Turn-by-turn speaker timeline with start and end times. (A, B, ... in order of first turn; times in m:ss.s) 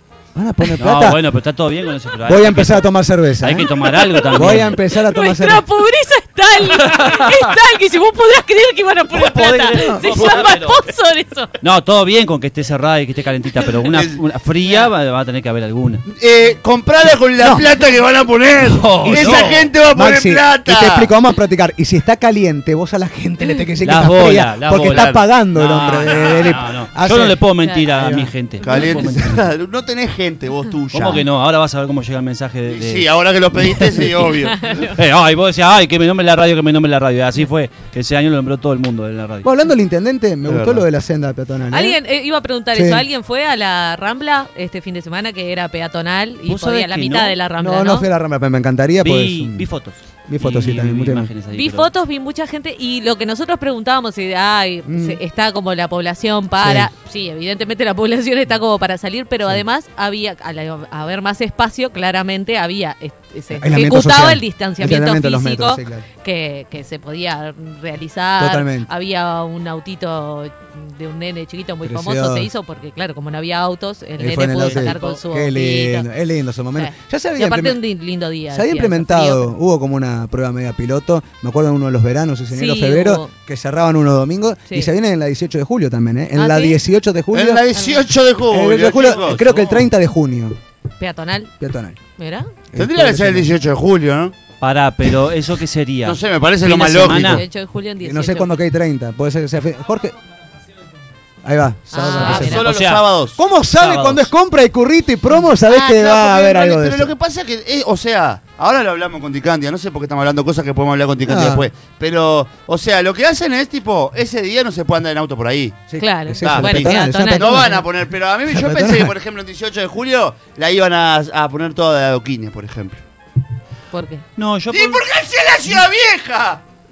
0:00.3-0:01.2 A
0:00.7-0:02.9 B
0:02.2-0:03.7 A
0:03.4-0:04.8 B
0:04.1-0:11.6 C
0:04.3-0:05.6 A
0:06.7-0:07.5 B
0:09.1-0:10.8 B
0:09.7-0:10.2 A
0:11.6-0:16.0 B
0:13.8-0:14.2 D
0:16.2-0:21.1 D
0:17.3-0:17.6 A
0:18.6-0:19.7 B
0:19.0-0:28.3 A
0:23.8-0:29.4 B
0:24.8-0:25.2 D
0:26.2-0:26.5 D
0:28.6-0:31.2 D
0:30.9-0:39.5 B
0:32.6-0:34.7 D
0:34.4-0:34.9 C
0:39.4-0:42.0 A
0:40.4-0:40.8 D
0:41.7-0:48.1 C
0:42.7-0:43.0 A
0:46.5-0:47.4 B
0:47.6-0:49.7 A
0:49.0-0:51.9 B
0:50.3-0:51.3 A
0:51.5-1:16.1 C
0:54.8-0:55.2 A
0:56.6-0:56.9 A
1:03.5-1:06.0 A
1:08.4-1:08.9 A
1:11.8-1:12.5 A
1:14.2-1:17.8 A
1:14.6-1:15.2 B
1:16.8-1:19.5 C
1:18.5-1:27.7 A
1:22.5-1:23.3 C
1:26.3-1:26.8 C
1:27.3-1:29.9 D
1:27.7-1:28.1 C
1:28.5-1:30.6 A
1:31.0-1:31.5 C
1:31.6-1:32.0 A
1:32.2-1:32.5 C
1:32.7-1:33.5 A
1:32.8-1:34.4 D
1:34.6-1:37.4 B
1:36.0-1:37.4 D
1:37.1-1:37.4 A
1:37.1-1:38.6 C
1:38.0-1:40.2 A
1:41.4-1:42.6 A
1:41.9-1:42.6 C
1:42.1-1:43.1 B
1:42.3-1:43.4 D
1:43.3-1:47.1 A
1:43.7-1:44.3 B
1:45.6-1:55.8 D
1:51.2-1:51.7 A
1:55.9-1:57.9 A
1:56.0-1:57.8 C
1:56.4-2:03.0 D
1:58.4-1:59.1 A
2:03.9-2:04.2 C
2:04.4-2:05.0 B
2:04.7-2:06.6 D